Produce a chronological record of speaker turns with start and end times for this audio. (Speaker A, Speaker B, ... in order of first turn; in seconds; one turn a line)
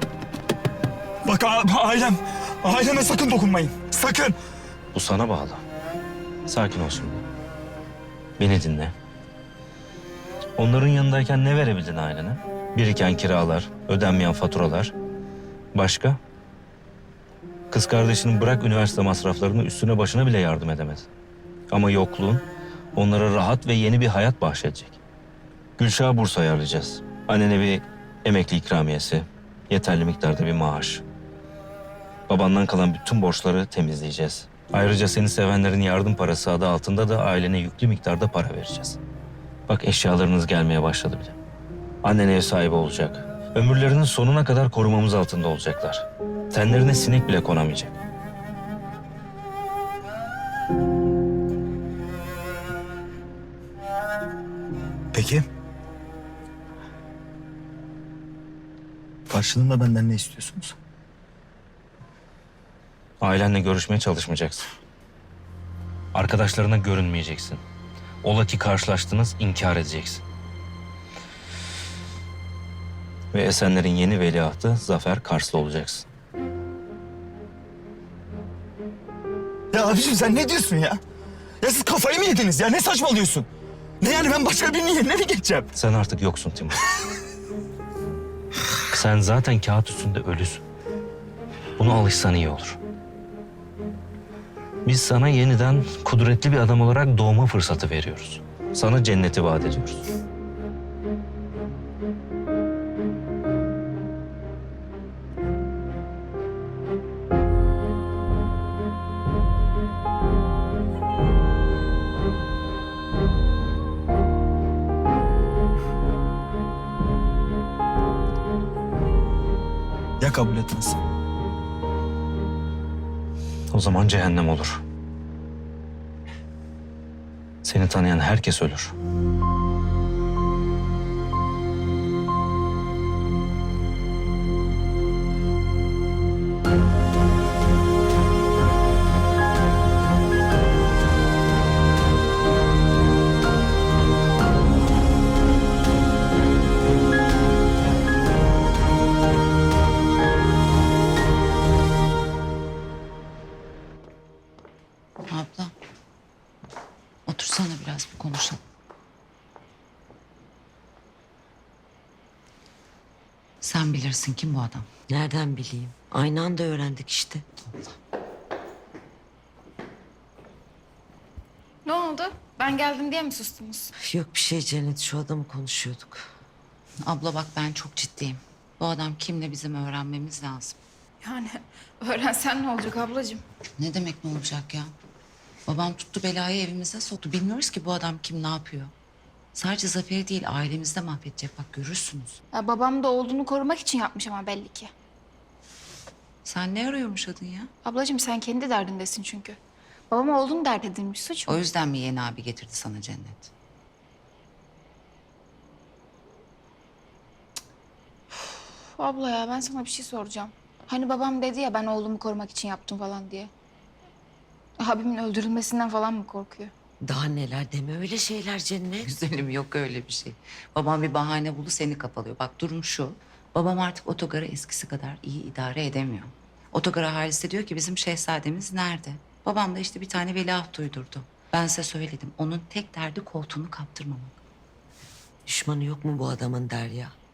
Speaker A: 1.2-4.4
Speaker B: 4.9-5.6
Speaker B: 6.5-7.3
Speaker B: 8.4-8.9
Speaker B: 10.6-14.9
Speaker B: 15.8-16.2
Speaker B: 17.7-21.1
Speaker B: 21.7-25.0
Speaker B: 25.8-31.0
Speaker B: 32.3-39.0
Speaker B: 39.7-41.4
Speaker B: 42.0-48.0
Speaker A: 55.1-55.5
Speaker A: 59.3-60.8
Speaker B: 63.2-64.7
Speaker B: 66.1-67.6
Speaker B: 68.2-70.2
Speaker B: 73.3-76.1
Speaker A: 79.7-81.0
Speaker A: 81.6-83.5
Speaker A: 84.0-85.7
Speaker B: 85.8-86.8
Speaker B: 88.9-90.6
Speaker B: 91.8-92.8
Speaker B: 94.8-100.1
Speaker A: 120.2-121.0
Speaker B: 123.7-124.8
Speaker B: 127.6-128.9
Speaker C: 155.3-155.7
Speaker C: 157.3-158.6
Speaker C: 163.6-164.9
Speaker D: 165.1-167.4
Speaker E: 171.8-173.9
Speaker D: 174.0-176.2
Speaker C: 177.1-180.8
Speaker E: 181.2-183.4
Speaker C: 183.8-184.9
Speaker C: 185.7-188.9
Speaker C: 189.6-192.4
Speaker E: 192.5-194.9
Speaker C: 196.4-197.7
Speaker E: 197.8-199.6
Speaker E: 200.1-201.6
Speaker C: 201.5-203.5
Speaker E: 209.0-213.5
Speaker E: 214.8-216.7
Speaker D: 217.0-219.1
Speaker C: 219.0-234.4
Speaker D: 235.5-237.2